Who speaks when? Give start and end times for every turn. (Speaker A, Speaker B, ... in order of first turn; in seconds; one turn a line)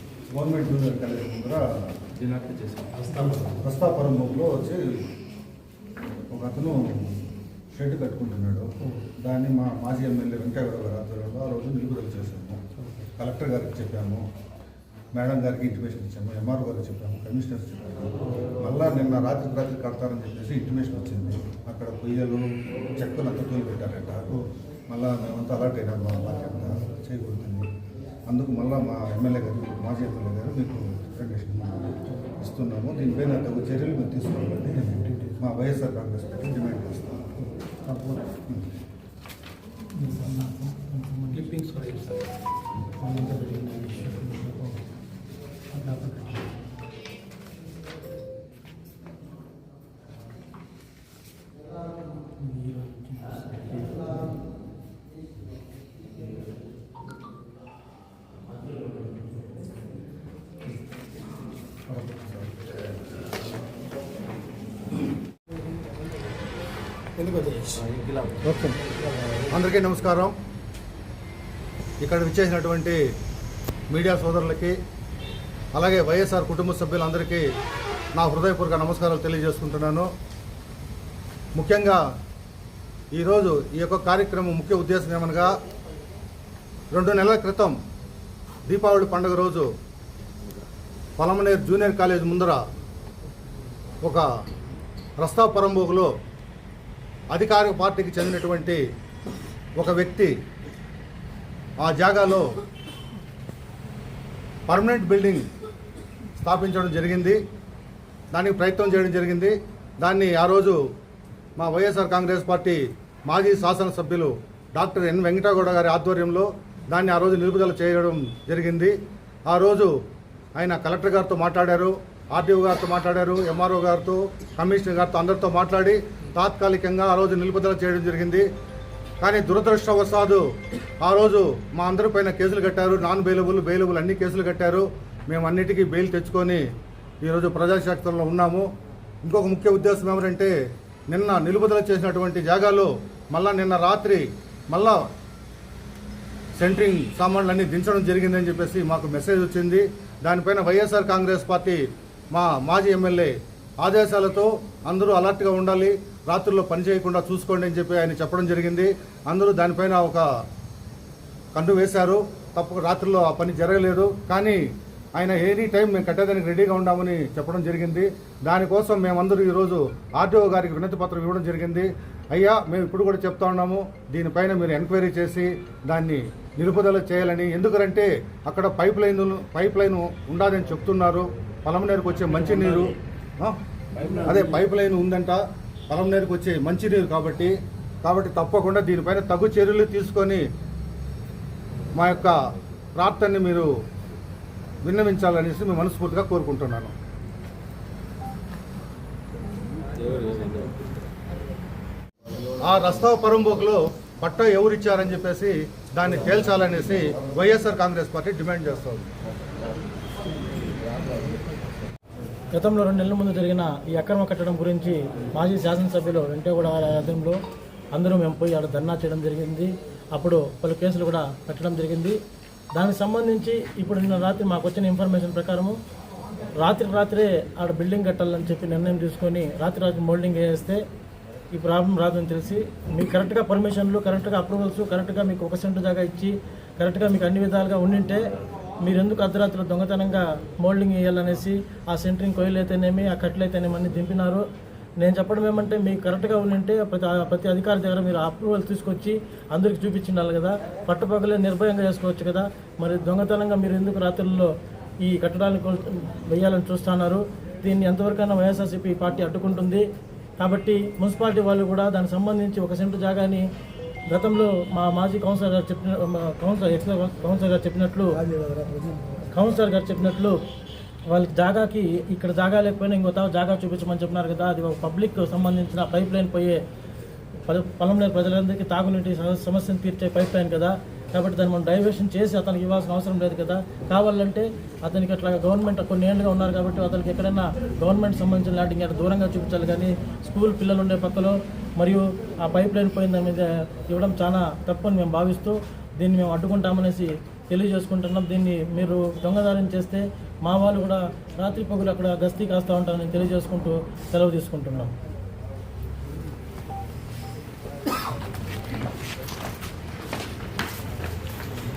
Speaker A: 0.3-1.9
Speaker B: 2.1-3.5
Speaker A: 3.5-5.0
Speaker A: 6.3-7.2
Speaker A: 7.7-12.6
Speaker A: 13.2-14.2
Speaker A: 15.1-27.7
Speaker A: 28.3-37.3
Speaker A: 38.5-38.7
Speaker C: 40.0-41.8
Speaker B: 41.3-42.2
Speaker B: 43.0-44.4
Speaker C: 43.1-44.7
Speaker C: 45.7-46.4
Speaker C: 52.4-54.1
Speaker A: 62.1-62.4
Speaker B: 67.2-68.4
Speaker A: 68.4-68.8
Speaker A: 69.5-70.3
Speaker A: 72.0-73.0
Speaker A: 73.9-74.8
Speaker A: 75.7-77.5
Speaker A: 78.1-80.1
Speaker A: 81.5-82.0
Speaker A: 83.1-85.5
Speaker A: 86.9-87.8
Speaker A: 88.7-89.7
Speaker A: 91.2-92.6
Speaker A: 95.2-96.1
Speaker A: 97.3-98.8
Speaker A: 99.8-100.3
Speaker A: 101.8-102.5
Speaker A: 104.7-105.5
Speaker A: 106.4-107.4
Speaker A: 108.3-110.8
Speaker A: 111.6-120.0
Speaker A: 120.5-128.5
Speaker A: 129.2-130.5
Speaker A: 131.0-136.6
Speaker A: 137.2-138.7
Speaker A: 139.2-140.5
Speaker A: 141.1-145.0
Speaker A: 146.6-160.3
Speaker A: 161.5-164.6
Speaker A: 165.1-183.6
Speaker B: 184.0-184.2
Speaker A: 184.2-190.4
Speaker A: 191.9-192.4
Speaker A: 192.9-193.7
Speaker A: 194.8-196.9
Speaker B: 200.0-200.7
Speaker A: 202.6-209.1
Speaker C: 212.5-217.4
Speaker C: 217.9-222.2
Speaker C: 222.7-225.8
Speaker C: 226.6-230.8
Speaker C: 231.5-238.2
Speaker C: 238.8-244.4
Speaker C: 245.0-259.8
Speaker C: 260.4-263.4
Speaker C: 264.1-268.3
Speaker C: 269.3-270.4
Speaker C: 271.1-276.6
Speaker C: 277.4-304.9